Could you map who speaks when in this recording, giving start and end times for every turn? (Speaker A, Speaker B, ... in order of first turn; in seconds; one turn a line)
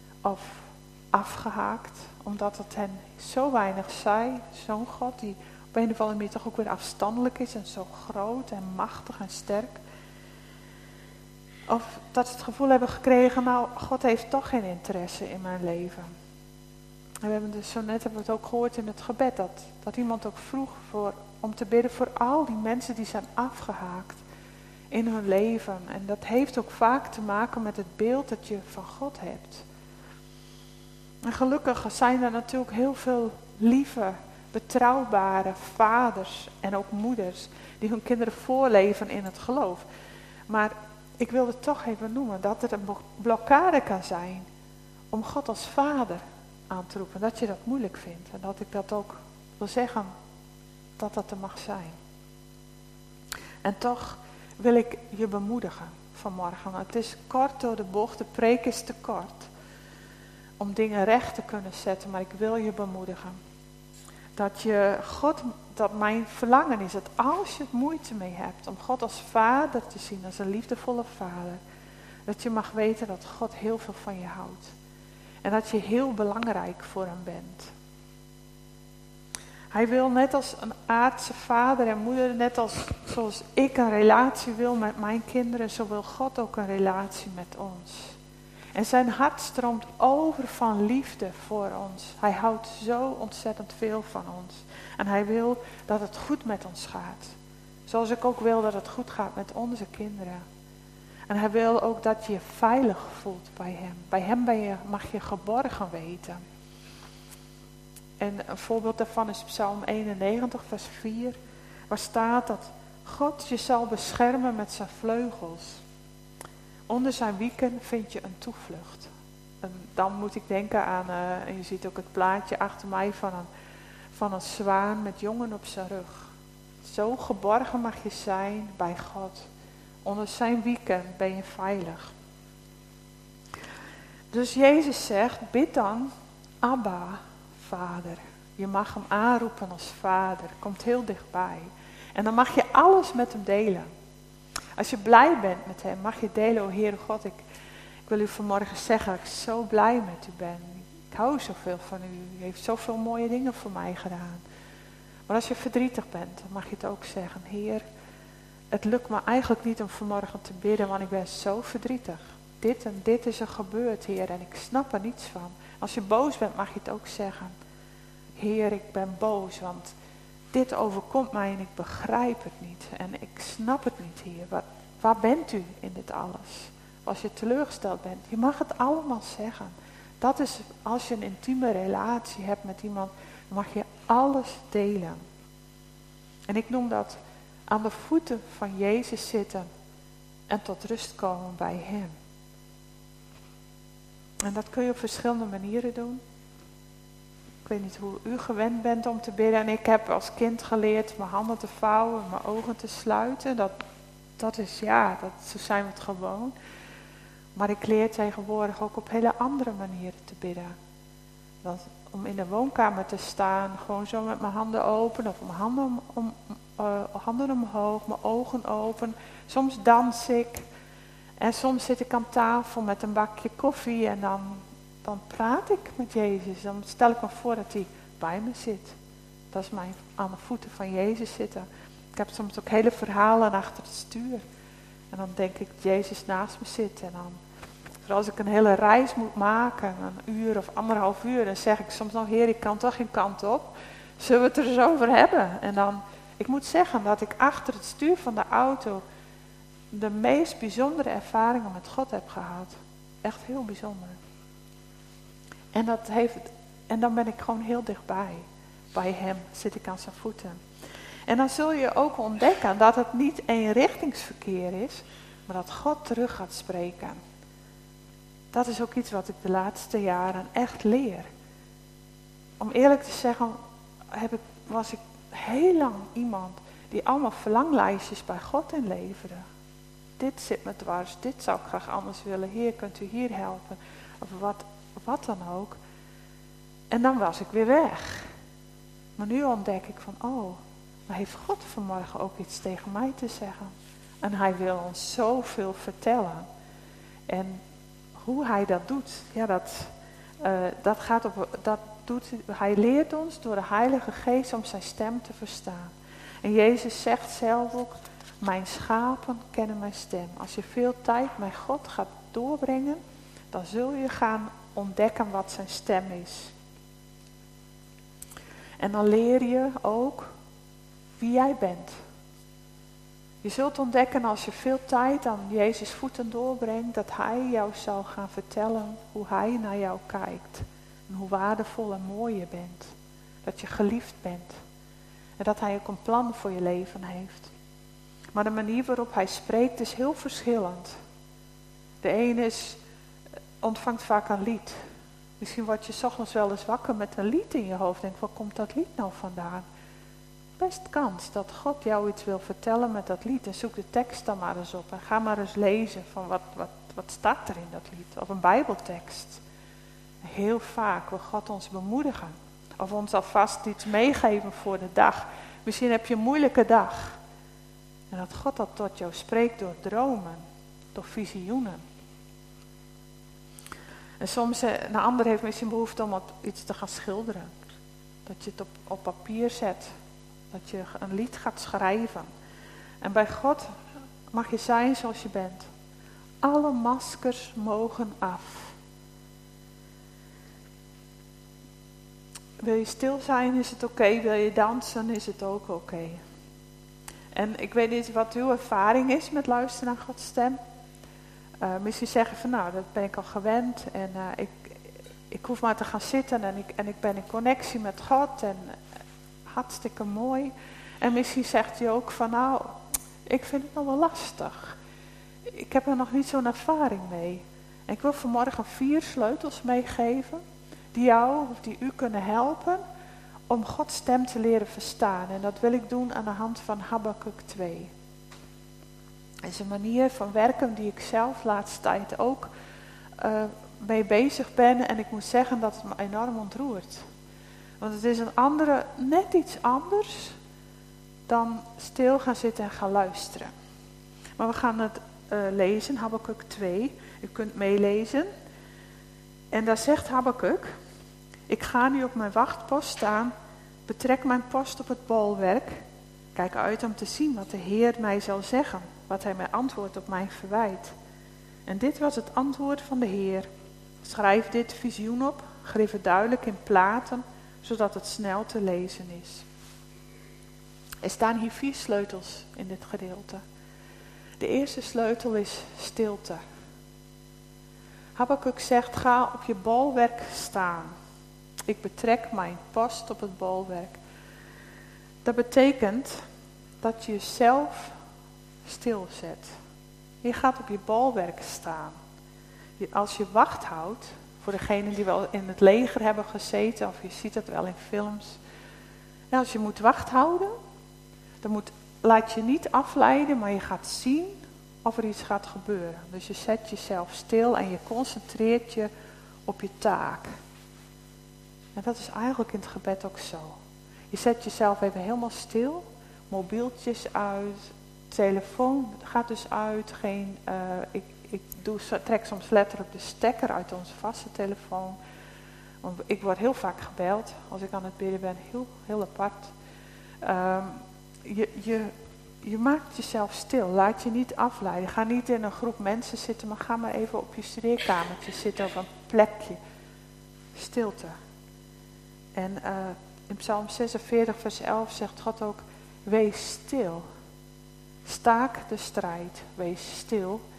Speaker A: 0.2-9.8
Speaker A: 11.7-16.1
Speaker A: 17.2-24.2
Speaker A: 24.9-29.7
Speaker A: 31.2-39.9
Speaker A: 40.5-44.5
Speaker A: 45.1-50.1
Speaker A: 51.0-52.0
Speaker A: 53.6-59.5
Speaker A: 60.6-63.4
Speaker A: 64.3-71.6
Speaker A: 72.3-74.7
Speaker A: 75.4-77.7
Speaker A: 79.7-88.2
Speaker A: 88.7-97.4
Speaker A: 97.9-100.4
Speaker A: 101.3-106.4
Speaker A: 108.2-111.4
Speaker A: 111.9-115.8
Speaker A: 116.9-119.1
Speaker A: 119.6-123.5
Speaker A: 124.1-126.3
Speaker A: 126.8-129.5
Speaker A: 130.0-132.1
Speaker A: 134.3-136.1
Speaker A: 136.6-143.9
Speaker A: 144.8-147.4
Speaker A: 148.1-154.4
Speaker A: 155.3-157.8
Speaker A: 158.7-167.6
Speaker A: 168.4-169.9
Speaker A: 170.5-185.2
Speaker A: 186.5-189.7
Speaker A: 190.5-192.2
Speaker A: 194.4-196.2
Speaker A: 197.7-203.8
Speaker A: 204.4-206.5
Speaker A: 207.6-210.8
Speaker A: 211.6-220.7
Speaker A: 221.4-229.0
Speaker A: 229.5-234.4
Speaker A: 235.1-237.4
Speaker A: 238.0-249.0
Speaker A: 249.9-254.2
Speaker A: 255.7-260.6
Speaker A: 261.3-267.2
Speaker A: 268.5-271.3
Speaker A: 272.6-273.6
Speaker A: 274.1-279.4
Speaker A: 280.2-285.8
Speaker A: 286.9-288.3
Speaker A: 289.2-296.5
Speaker A: 297.3-297.6
Speaker A: 298.2-316.5
Speaker A: 318.8-320.3
Speaker A: 321.2-322.0
Speaker A: 323.4-334.6
Speaker A: 335.4-337.5
Speaker A: 338.3-340.9
Speaker A: 342.0-342.8
Speaker A: 343.6-344.8
Speaker A: 345.4-349.7
Speaker A: 350.6-359.4
Speaker A: 360.2-367.2
Speaker A: 368.1-371.8
Speaker A: 374.2-377.5
Speaker A: 378.2-379.9
Speaker A: 380.5-382.3
Speaker A: 383.0-383.7
Speaker A: 384.3-385.7
Speaker A: 386.4-388.8
Speaker A: 392.6-396.2
Speaker A: 397.3-400.6
Speaker A: 401.6-408.8
Speaker A: 409.5-414.8
Speaker A: 415.5-420.4
Speaker A: 420.9-422.8
Speaker A: 423.5-427.9
Speaker A: 429.4-432.5
Speaker A: 433.2-437.1
Speaker A: 437.8-440.4
Speaker A: 441.3-443.5
Speaker A: 444.4-448.3
Speaker A: 449.5-450.7
Speaker A: 451.5-453.3
Speaker A: 453.9-455.8
Speaker A: 456.4-460.9
Speaker A: 461.7-463.5
Speaker A: 464.0-469.5
Speaker A: 471.0-473.4
Speaker A: 474.4-476.4
Speaker A: 478.2-480.9
Speaker A: 481.7-484.0
Speaker A: 485.2-486.2
Speaker A: 486.8-488.0
Speaker A: 488.6-489.6
Speaker A: 490.2-492.0
Speaker A: 492.8-498.4
Speaker A: 499.3-500.5
Speaker A: 501.4-508.9
Speaker A: 509.5-510.3
Speaker A: 511.8-513.6
Speaker A: 514.1-525.0
Speaker A: 525.8-529.5
Speaker A: 530.2-539.6
Speaker A: 540.5-541.2
Speaker A: 542.4-547.0
Speaker A: 548.0-550.4